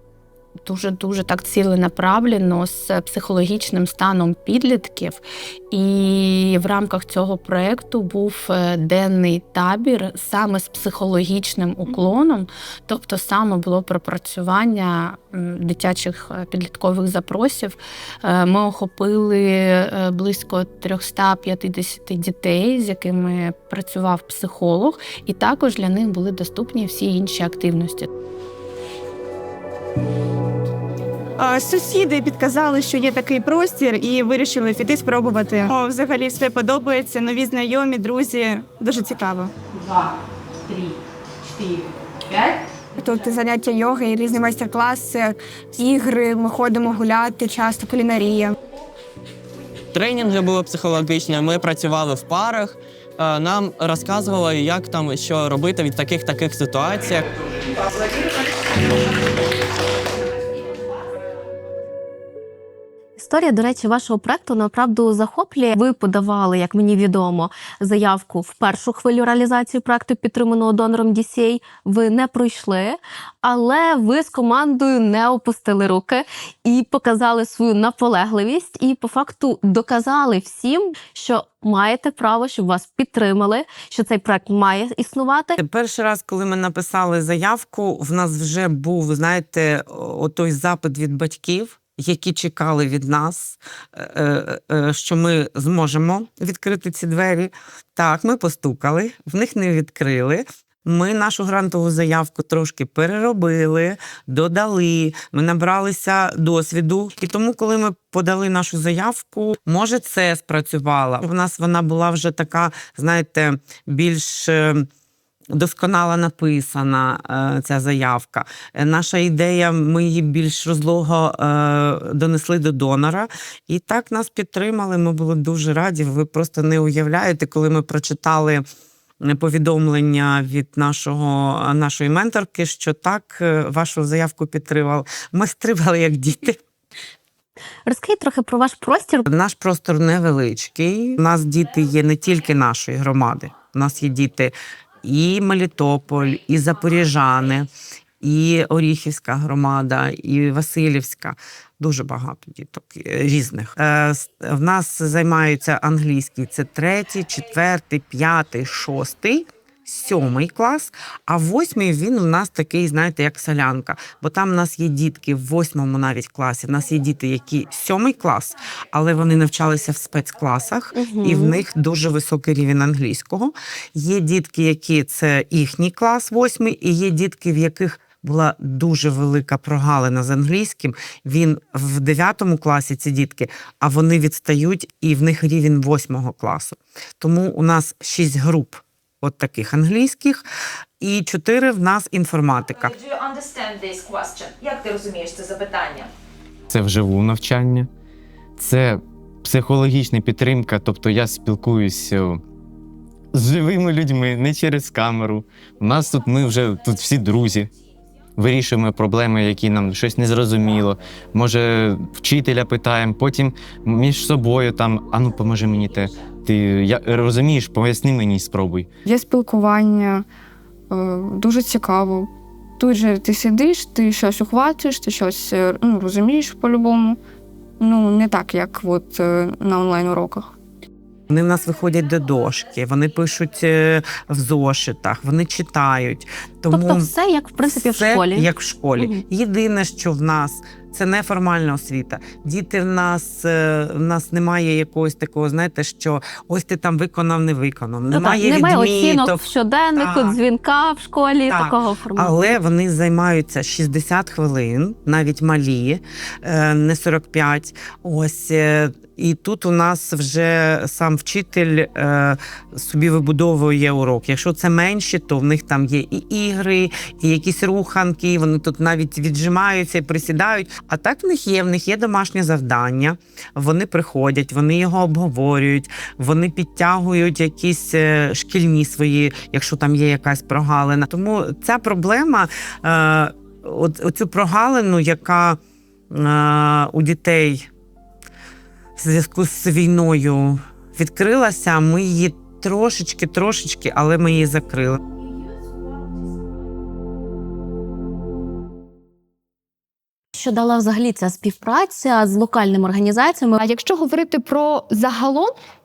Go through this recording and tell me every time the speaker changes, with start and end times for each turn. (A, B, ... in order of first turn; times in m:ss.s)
0:00.6-0:28.1 A
0:31.4-0:39.5 B
0:43.0-0:48.5 B
0:49.9-0:57.3 C
1:03.2-1:25.6 D
1:25.6-1:54.8 E
1:55.5-2:08.6 E
2:09.2-2:16.6 E
2:17.8-2:19.3 D
2:19.3-2:27.7 E
2:28.2-3:10.4 E
2:50.9-2:51.6 D
3:11.0-3:13.0 E
3:12.9-3:16.1 F
3:16.7-3:17.9 G
3:18.6-3:22.4 G
3:23.3-3:27.7 G
3:28.4-3:38.9 G
3:39.0-3:40.2 H
3:40.9-3:47.2 H
3:47.8-3:50.5 H
3:51.3-3:57.1 E
3:56.7-3:59.2 D
3:57.6-4:09.4 E
4:08.1-4:12.6 D
4:10.0-4:10.4 E
4:11.5-4:45.6 E
4:46.1-4:47.7 E
4:49.0-4:55.0 E
5:00.3-5:03.6 D
5:03.6-5:05.5 I